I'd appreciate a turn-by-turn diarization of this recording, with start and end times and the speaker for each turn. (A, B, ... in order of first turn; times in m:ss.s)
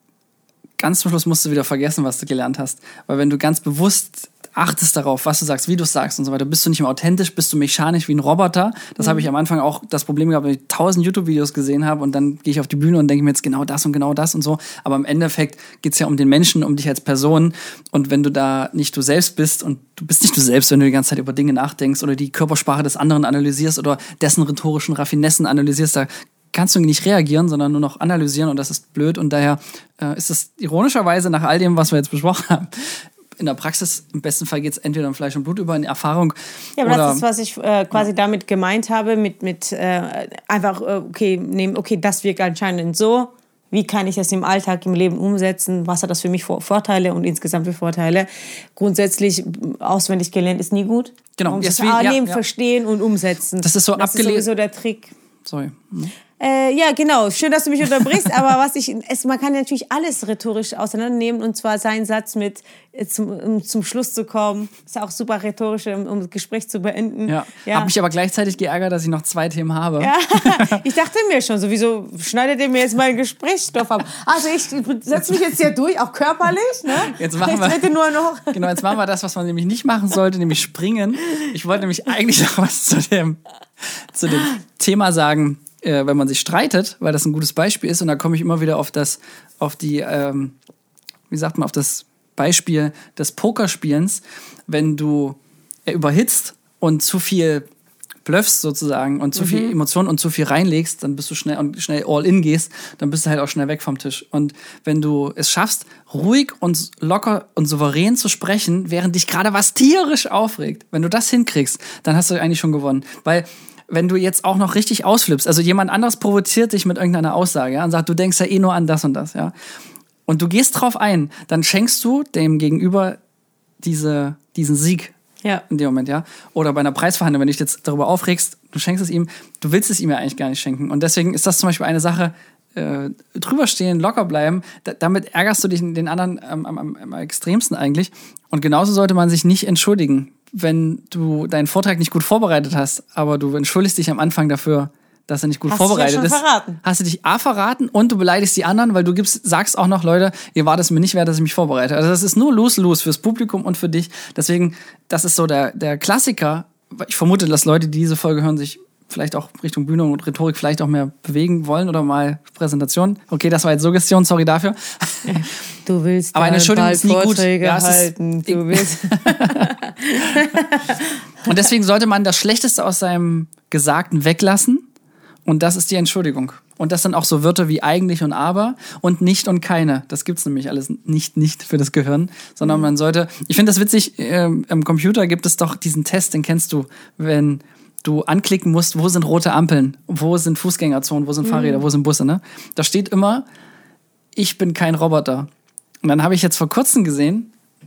0:00.8-0:37.2 A
0:09.0-0:09.2 B
0:36.8-0:55.1 B
0:51.4-0:52.4 A
0:53.6-0:54.5 A
0:55.4-0:56.1 A
0:56.4-1:07.9 B
1:07.3-1:10.8 A
1:10.0-1:18.6 B
1:17.0-1:17.9 A
1:18.5-1:30.6 A
1:31.3-1:37.6 A
1:38.2-1:59.5 A
1:39.4-1:39.7 B
2:00.2-2:03.2 A
2:03.8-2:05.1 A
2:05.7-2:45.5 A
2:25.7-2:26.8 B
2:45.2-2:51.1 B
2:46.3-2:49.7 A
2:51.4-2:54.8 A
2:55.4-3:13.4 A
3:11.5-3:11.8 B
3:14.3-3:15.5 A
3:16.0-3:17.5 A